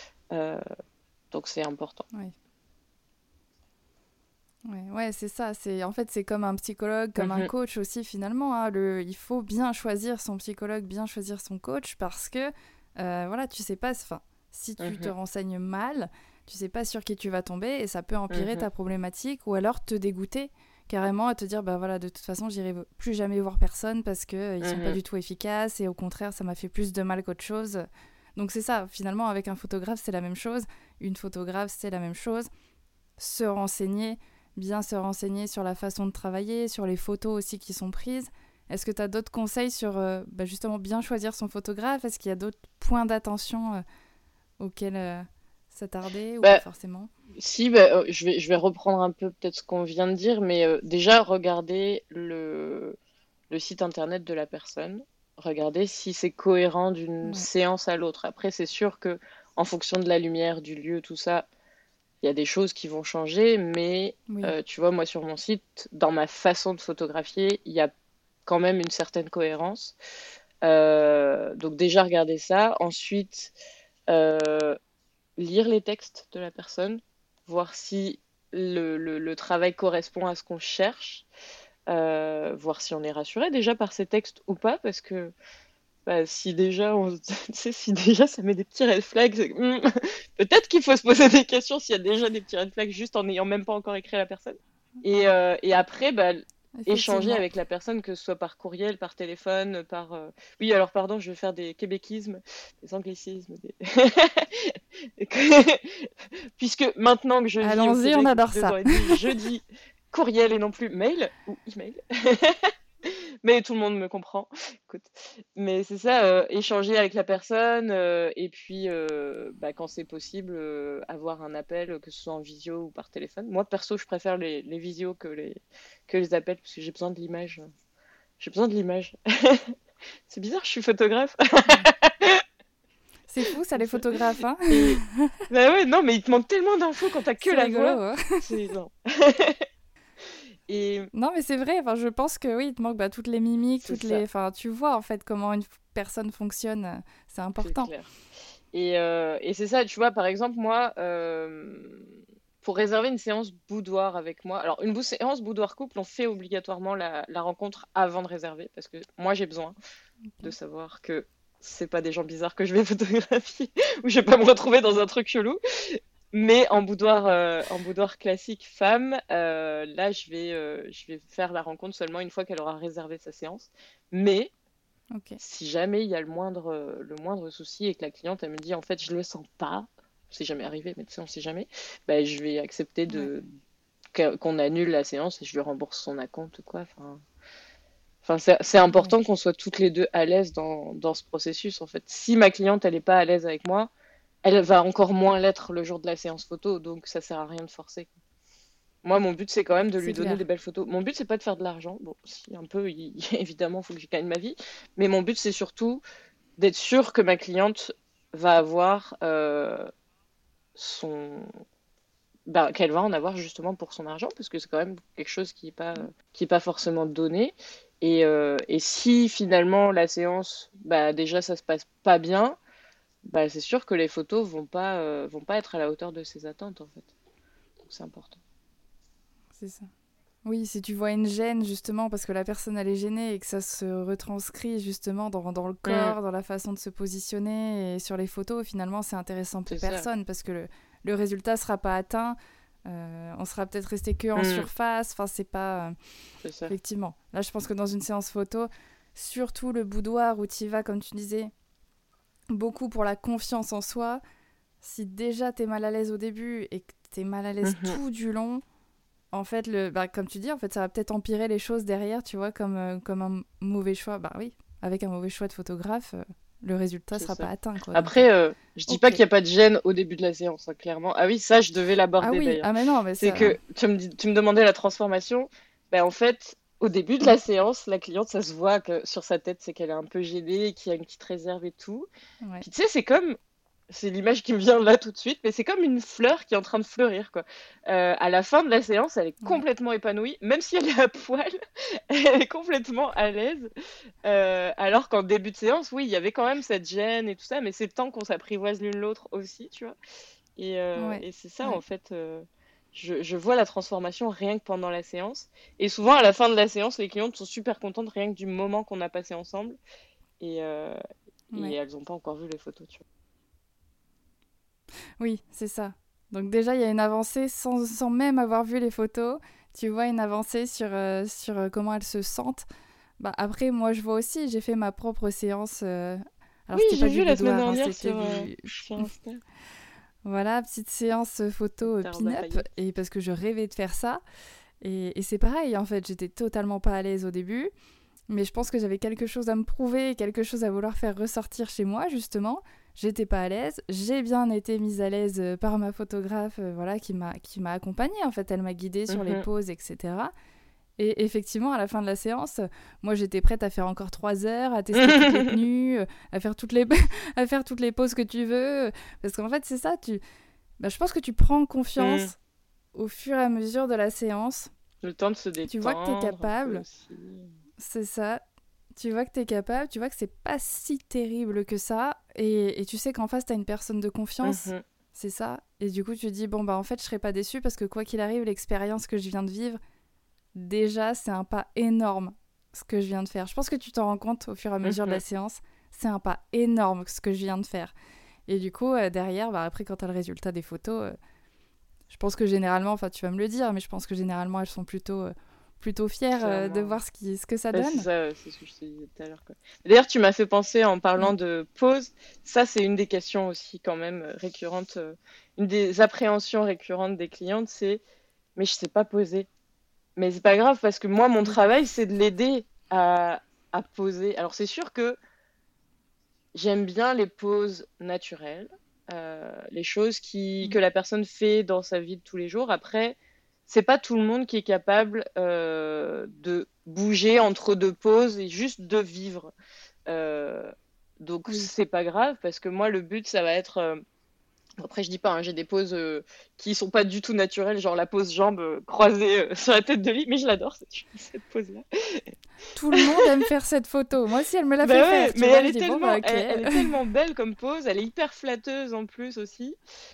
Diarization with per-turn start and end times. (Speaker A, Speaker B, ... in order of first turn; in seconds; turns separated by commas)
Speaker A: 0.3-0.6, Speaker A: 1.3-2.1, Speaker B: 4.7-32.5, Speaker A: 7.2-7.5, Speaker A: 14.8-15.1, Speaker A: 18.3-18.7, Speaker A: 24.6-25.0, Speaker B: 33.2-43.8, Speaker B: 44.6-47.1, Speaker A: 47.4-53.0, Speaker A: 53.5-61.5, Speaker A: 62.2-67.9, Speaker B: 64.3-64.5, Speaker A: 68.5-70.0, Speaker A: 70.6-73.5, Speaker A: 74.1-74.8, Speaker A: 75.4-81.3, Speaker A: 81.9-85.3, Speaker A: 86.1-127.7, Speaker B: 96.8-97.5, Speaker B: 107.6-109.2, Speaker A: 128.4-129.8, Speaker A: 130.3-132.4, Speaker B: 133.3-135.3, Speaker A: 133.8-134.1, Speaker A: 134.7-139.7, Speaker B: 137.4-138.5, Speaker A: 140.7-141.1, Speaker B: 141.1-147.9, Speaker A: 143.8-144.2, Speaker A: 147.6-148.1, Speaker A: 148.7-159.8, Speaker A: 160.4-174.5, Speaker B: 175.1-175.4, Speaker A: 175.4-183.5, Speaker A: 184.1-187.2, Speaker A: 188.2-193.9, Speaker B: 188.9-189.1, Speaker A: 194.4-198.1, Speaker A: 199.0-206.0, Speaker B: 200.0-200.4, Speaker A: 206.6-209.9, Speaker A: 210.8-211.5, Speaker A: 212.5-222.6, Speaker A: 223.3-227.1, Speaker A: 227.8-228.4, Speaker B: 229.6-229.9, Speaker B: 230.4-242.4, Speaker A: 235.9-236.2, Speaker A: 239.7-240.1, Speaker B: 242.9-245.9, Speaker A: 244.4-244.7, Speaker A: 246.4-246.7, Speaker B: 246.7-251.5, Speaker B: 252.5-254.2, Speaker B: 254.8-258.6, Speaker A: 257.6-258.0, Speaker B: 259.3-268.1, Speaker A: 267.2-272.7, Speaker B: 268.9-269.2, Speaker B: 272.2-273.6, Speaker A: 273.2-282.1, Speaker A: 282.6-283.4, Speaker A: 283.9-293.7, Speaker A: 294.2-300.0, Speaker A: 300.6-309.8, Speaker B: 301.0-301.8, Speaker A: 310.4-311.0, Speaker A: 311.5-313.0, Speaker B: 315.2-322.7, Speaker B: 323.2-329.1, Speaker A: 326.8-329.4, Speaker B: 330.2-334.2, Speaker A: 331.8-332.7, Speaker B: 334.8-337.7, Speaker B: 338.3-350.3, Speaker A: 349.1-349.4, Speaker B: 351.0-360.2, Speaker A: 355.0-355.5, Speaker B: 360.8-362.4, Speaker A: 362.0-362.3, Speaker B: 362.9-364.7, Speaker A: 365.0-367.5, Speaker B: 365.7-366.9, Speaker B: 367.8-368.4, Speaker B: 369.0-379.8, Speaker A: 374.4-374.8, Speaker B: 380.6-387.9, Speaker A: 384.8-385.2, Speaker B: 388.5-391.2, Speaker B: 392.1-398.1, Speaker A: 396.4-397.0, Speaker A: 397.7-408.0, Speaker A: 408.6-409.5, Speaker A: 410.2-415.2, Speaker A: 416.5-429.5, Speaker A: 430.1-434.0, Speaker A: 434.8-442.3, Speaker B: 442.8-446.8, Speaker A: 443.0-443.2, Speaker A: 444.8-449.8